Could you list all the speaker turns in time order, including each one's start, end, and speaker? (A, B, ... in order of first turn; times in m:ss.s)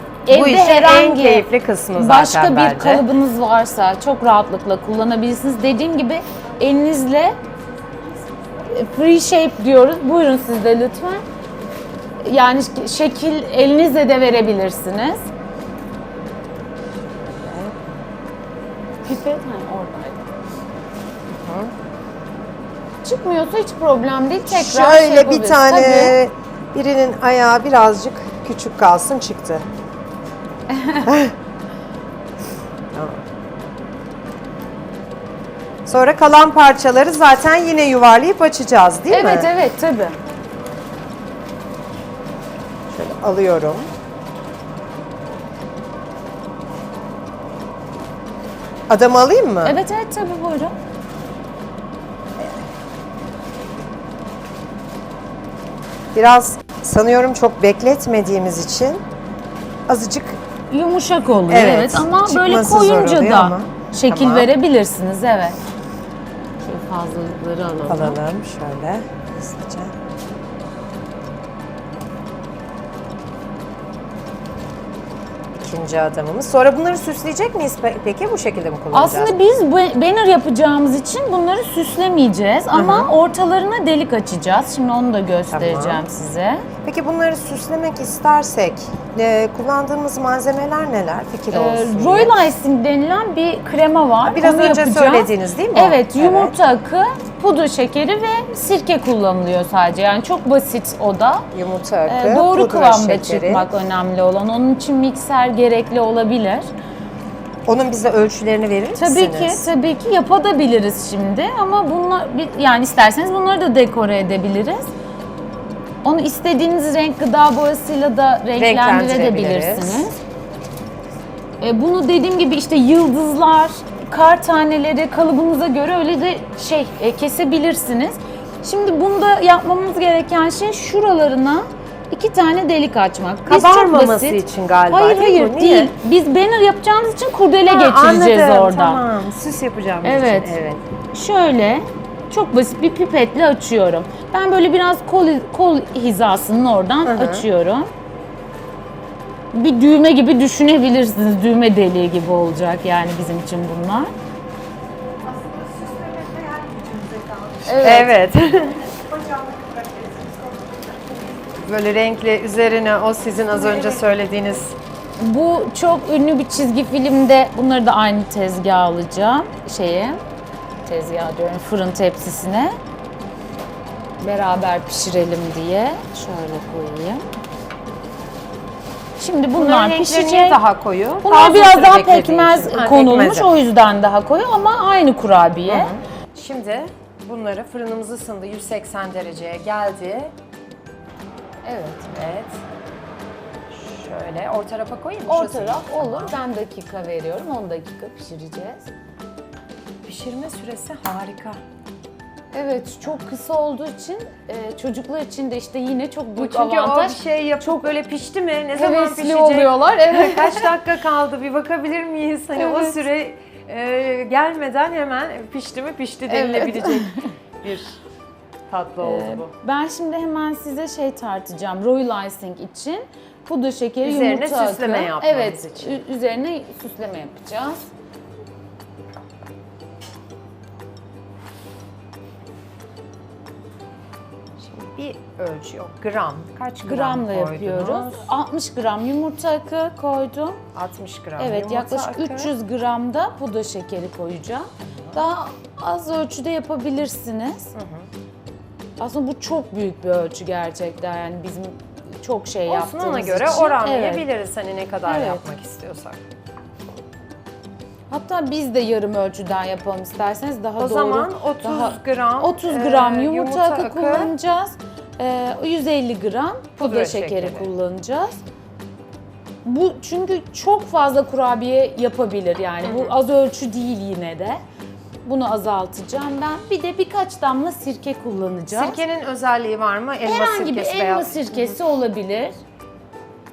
0:00.3-0:07.4 A
0:00.3-0:03.1 B
0:07.7-0:08.7 C
0:08.7-0:11.2 A
0:12.2-0:15.2 A
0:17.2-0:17.9 B
0:19.0-0:20.3 A
0:21.3-0:21.7 B
0:23.0-0:26.2 A
0:24.5-0:29.7 B
0:30.7-0:31.1 A
0:31.0-0:31.4 B
0:32.9-0:33.2 B
0:35.9-0:39.5 B
0:39.1-0:40.2 A
0:42.9-0:43.9 B
0:48.9-0:49.8 B
0:49.6-0:50.8 A
0:56.1-0:59.0 B
0:59.9-1:00.4 B
1:00.7-1:05.6 A
1:01.5-1:04.5 B
1:06.6-1:08.2 A
1:07.9-1:09.9 B
1:15.6-1:19.3 B
1:18.9-1:26.7 A
1:22.7-1:23.1 B
1:25.5-1:26.1 B
1:26.8-1:32.5 B
1:31.5-1:41.5 A
1:34.3-1:36.6 B
1:41.5-1:43.7 B
1:42.1-1:46.7 A
1:47.7-1:49.7 B
1:49.0-1:54.9 A
1:56.0-2:00.2 A
1:58.6-2:00.1 B
2:01.6-2:19.0 A
2:13.5-2:16.0 B
2:17.7-2:20.8 B
2:20.0-2:20.6 A
2:21.1-2:27.9 A
2:27.0-2:27.5 B
2:29.5-2:34.1 A
2:35.2-2:41.6 C
2:37.7-2:38.1 A
2:37.8-2:38.8 B
2:41.6-2:44.8 B
2:45.2-2:50.2 A
2:50.8-2:52.8 A
2:54.2-2:57.2 A
2:59.2-3:00.6 A
2:59.6-3:03.5 B
3:01.2-3:05.9 A
3:05.7-3:10.3 B
3:11.6-3:12.1 A
3:12.1-3:12.6 B
3:13.7-3:16.4 B
3:15.3-3:18.9 A
3:20.1-3:21.6 B
3:22.5-3:27.9 A
3:26.4-3:38.0 B
3:28.7-3:30.7 A
3:32.6-3:33.0 A
3:36.3-3:37.3 A
3:38.7-3:39.5 B
3:39.0-3:47.9 A
3:44.0-3:46.0 B
3:54.6-3:58.3 B
3:56.8-4:00.6 A
4:00.7-4:02.5 B
4:01.4-4:07.7 A
4:04.8-4:05.2 B
4:07.8-4:08.1 B
4:09.0-4:14.2 A
4:12.7-4:16.2 B
4:15.1-4:15.4 A
4:18.1-4:28.4 A
4:20.8-4:24.3 B
4:26.8-4:27.7 B
4:29.6-4:34.6 A
4:32.8-4:33.2 B
4:35.2-4:39.0 A
4:38.7-4:41.8 B
4:40.2-4:42.6 A